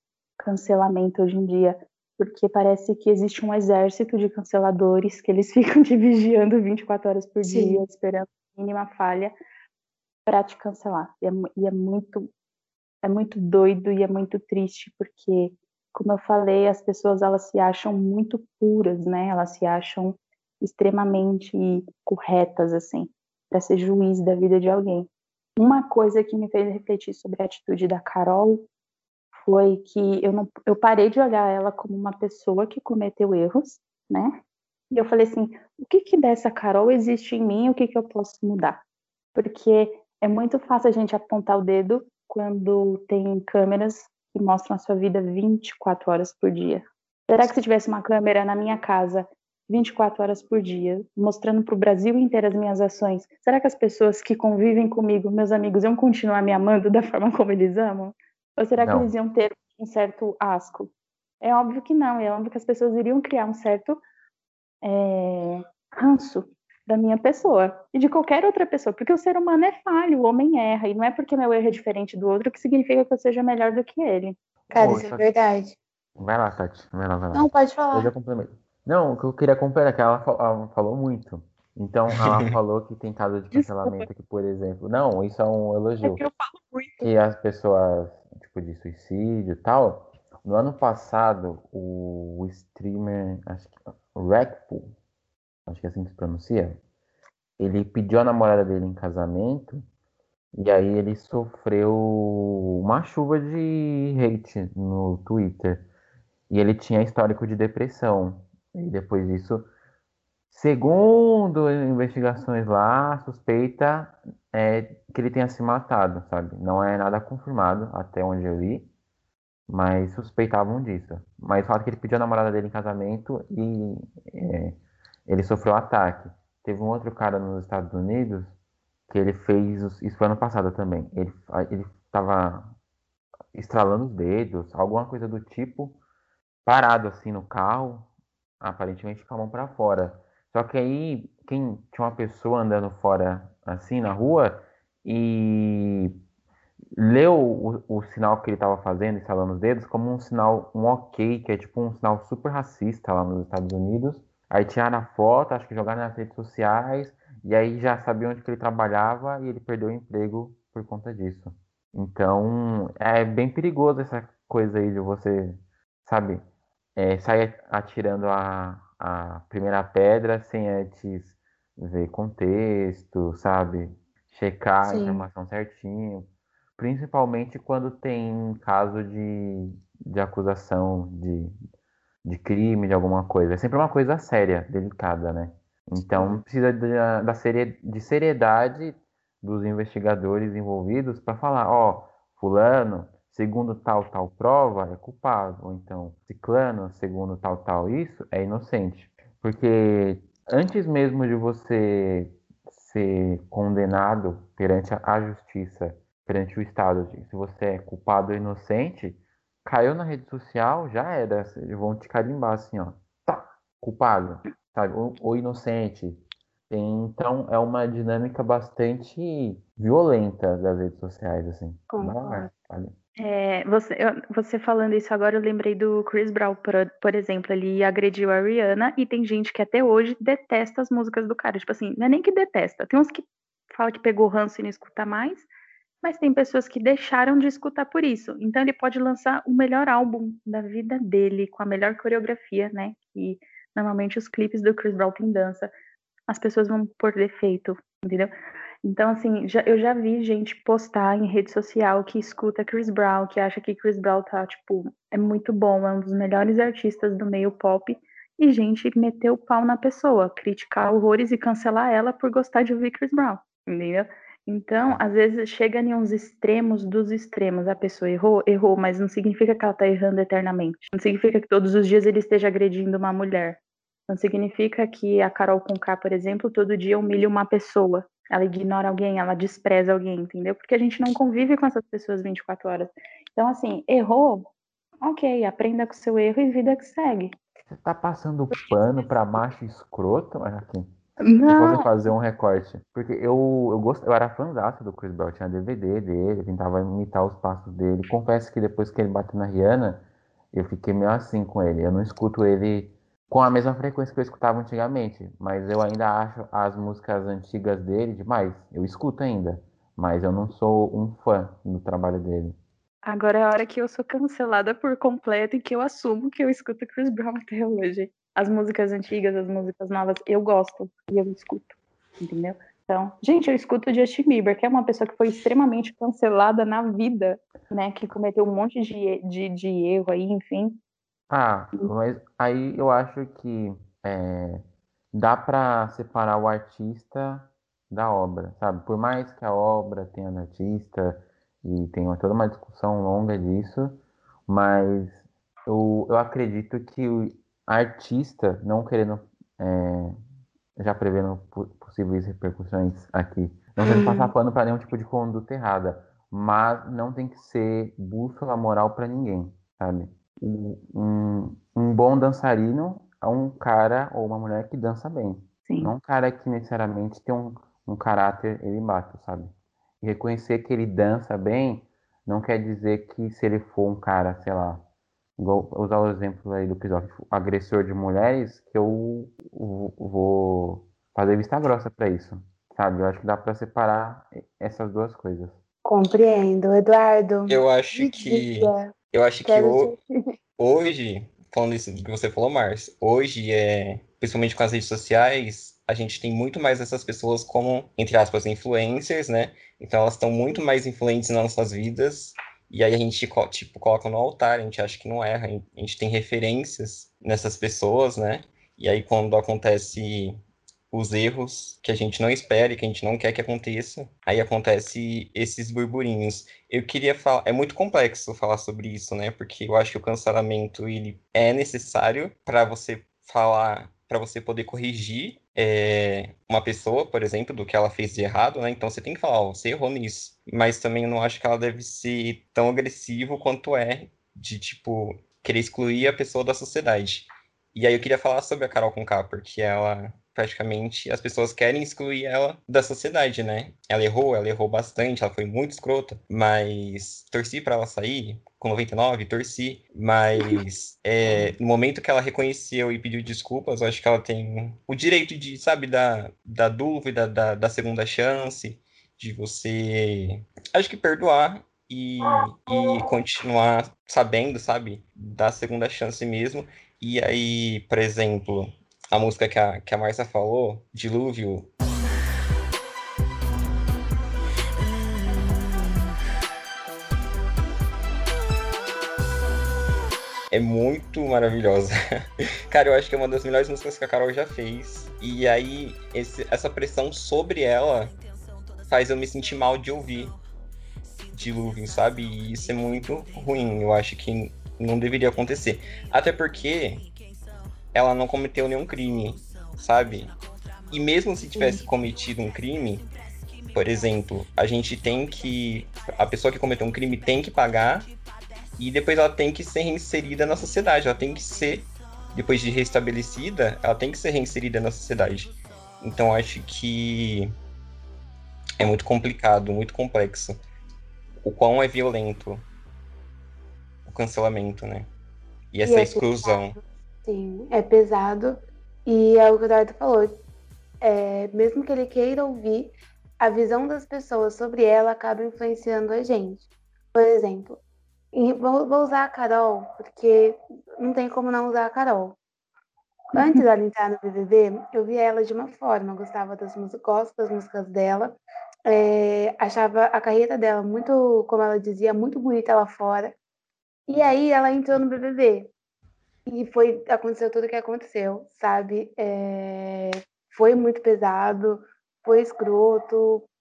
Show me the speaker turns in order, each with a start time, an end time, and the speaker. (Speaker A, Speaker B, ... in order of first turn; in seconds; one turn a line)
Speaker A: 0.4-9.3
Speaker B: 7.4-7.8
Speaker A: 10.2-12.3
Speaker A: 13.0-28.6
Speaker A: 29.4-34.3
Speaker A: 34.9-38.8
Speaker A: 39.3-64.0
Speaker C: 58.8-59.1
Speaker A: 64.8-74.3
Speaker B: 74.7-75.8
Speaker C: 74.7-75.2
Speaker C: 76.2-86.2
Speaker B: 77.3-78.1
Speaker D: 82.1-82.5
Speaker A: 83.5-84.0
Speaker A: 86.0-87.0
Speaker C: 87.0-94.9
Speaker C: 95.7-96.8
Speaker C: 97.6-99.8
Speaker C: 100.5-105.9
Speaker C: 106.5-109.7
Speaker C: 110.5-118.9
Speaker C: 119.7-128.6
Speaker C: 129.1-132.7
Speaker C: 133.5-136.0
Speaker C: 136.7-138.1
Speaker C: 138.6-146.1
Speaker C: 146.9-166.4
Speaker C: 166.9-181.6
Speaker B: 174.8-175.2
Speaker C: 182.2-222.9
Speaker B: 221.9-222.5
Speaker A: 223.2-235.4
Speaker A: 236.0-245.7
Speaker A: 246.3-248.3
Speaker A: 248.8-284.5
Speaker A: 285.0-287.3
Speaker C: 287.7-290.9
Speaker A: 291.2-291.9
Speaker C: 291.4-312.6
Speaker A: 313.1-330.8
Speaker C: 331.3-350.1
Speaker C: 350.8-374.9
Speaker B: 353.8-354.3
Speaker A: 365.7-365.9
Speaker C: 375.4-385.6
Speaker B: 385.8-388.9
Speaker D: 387.5-389.9
Speaker B: 389.4-390.0
Speaker D: 390.6-410.4
Speaker D: 410.9-471.7
Speaker D: 480.5-488.1
Speaker D: 488.9-490.4
Speaker D: 491.3-497.1
Speaker D: 497.9-500.4
Speaker D: 500.9-503.1
Speaker D: 503.7-508.1
Speaker D: 508.8-517.5
Speaker D: 518.8-520.6
Speaker D: 521.4-522.6
Speaker D: 524.0-525.1
Speaker D: 525.7-526.8
Speaker B: 525.8-530.4
Speaker B: 531.0-537.8
Speaker B: 538.3-542.4
Speaker B: 543.3-553.4
Speaker A: 543.4-543.6
Speaker B: 554.1-555.7
Speaker B: 556.5-563.5